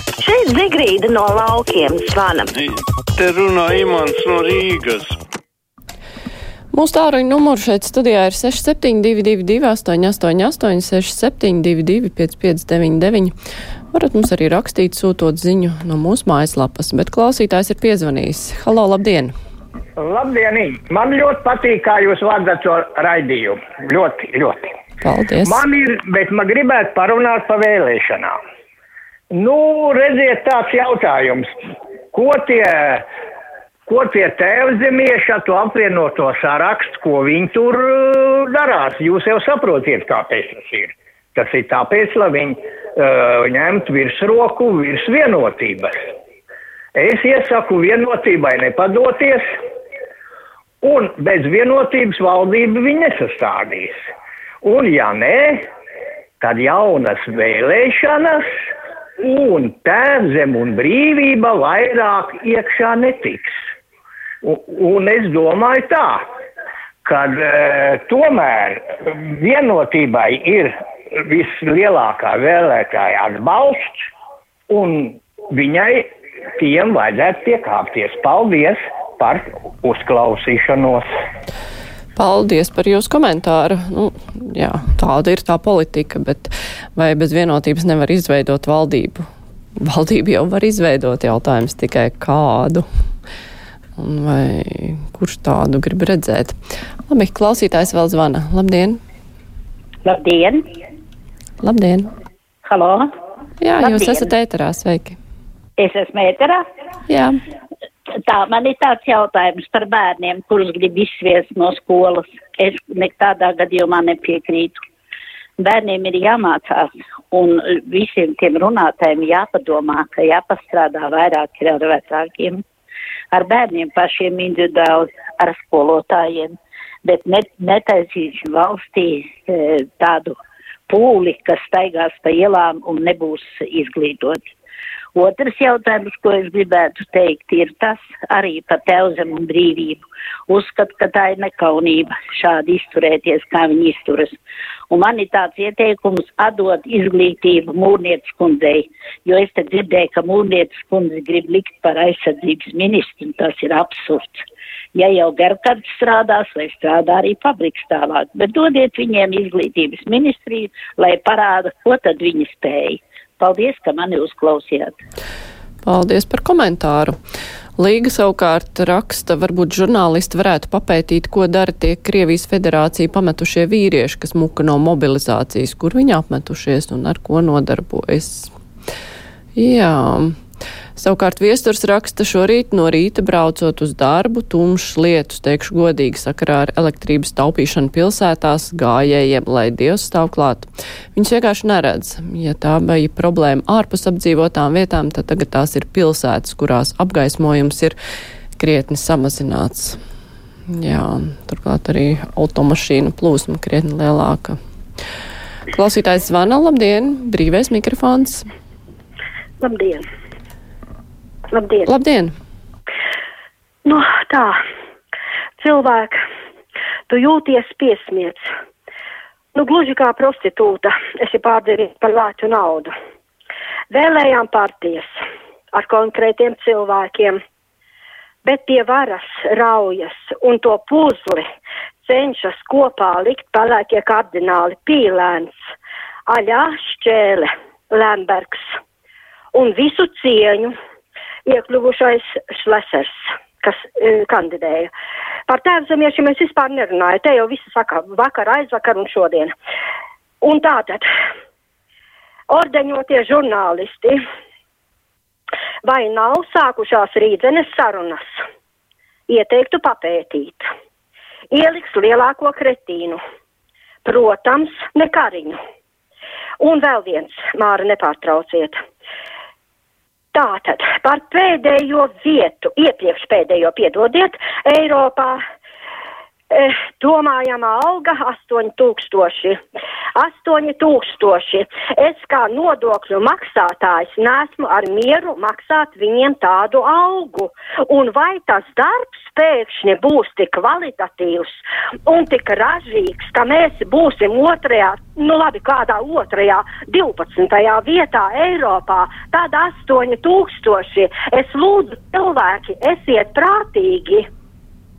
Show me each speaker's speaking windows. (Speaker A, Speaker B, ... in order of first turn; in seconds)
Speaker A: 0.2-2.5
Speaker B: 2.5-5.2
Speaker C: 6.7-13.3, 13.9-19.3, 25.0-25.6, 82.2-89.3, 89.8-92.9, 94.0-96.6, 97.1-99.0, 101.6-102.1, 103.6-105.2, 107.1-107.4, 165.8-167.2, 167.8-178.5, 179.6-180.4, 181.0-197.9, 198.6-200.0, 200.7-204.6, 205.7-208.5, 211.9-212.3
Speaker D: 20.0-24.7, 25.4-28.3, 29.3-31.5, 32.1-33.0, 33.9-46.0, 47.0-49.5, 50.8-54.0, 54.6-55.6, 56.4-58.5, 59.2-63.6, 64.4-66.2, 67.0-70.7, 71.3-74.0, 74.7-76.0, 76.6-81.1
Speaker E: 100.0-100.7, 102.7-103.1, 103.8-104.3, 105.8-106.6, 108.3-114.8, 115.6-122.6, 123.3-130.4, 130.9-134.5, 135.1-144.4, 144.9-154.4, 154.9-165.0
Speaker F: 209.6-210.0, 211.5-211.9, 213.8-214.6, 215.6-216.2, 217.1-218.4, 219.5-222.9, 223.9-225.1, 225.7-227.4, 228.4-231.4, 232.0-235.7, 236.3-238.7, 239.5-240.7, 241.5-244.9, 245.5-249.5, 250.4-251.1, 252.5-254.2, 255.8-258.4, 259.3-260.7, 261.5-263.2, 264.0-265.6, 266.6-268.8, 270.3-275.4, 276.5-279.6, 280.2-304.2